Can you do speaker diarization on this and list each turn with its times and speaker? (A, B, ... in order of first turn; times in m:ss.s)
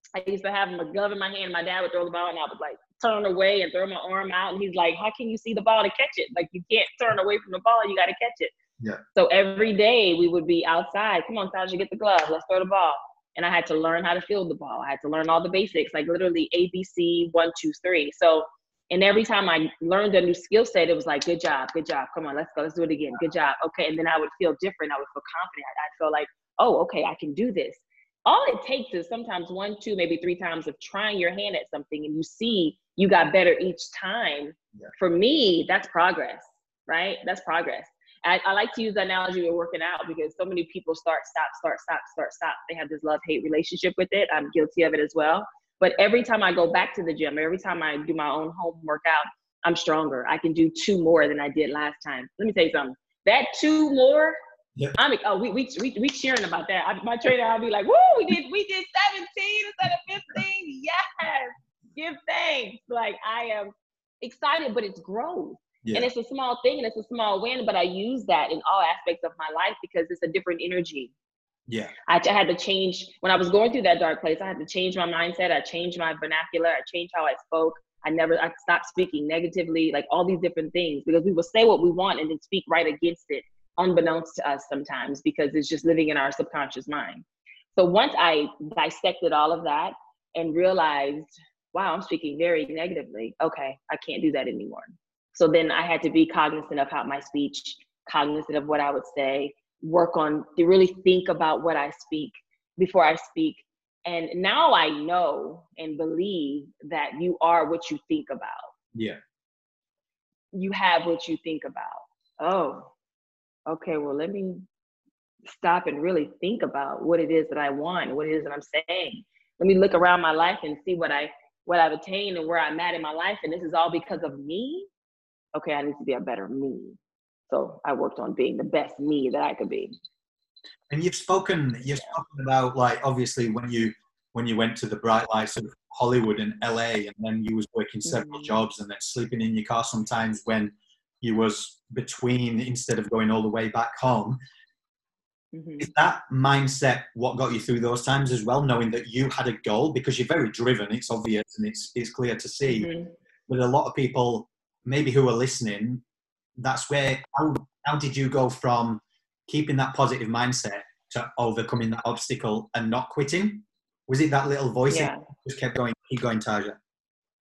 0:00.2-0:08.5 A
0:09.2-0:54.4 A
0:55.0-1:11.1 A
1:11.7-1:11.9 B
1:12.1-1:27.2 A
1:27.8-1:48.7 A
1:48.9-1:49.2 B
1:50.5-1:52.9 A
1:53.7-1:54.6 A
1:55.5-2:04.9 A
2:05.5-2:07.0 A
2:07.5-2:10.0 A
2:10.9-2:24.4 B
2:18.0-2:18.6 A
2:25.5-2:25.9 A
2:25.8-2:32.9 B
2:32.7-2:33.1 A
2:33.5-2:36.0 B
2:36.6-2:46.8 B
2:44.9-2:45.2 A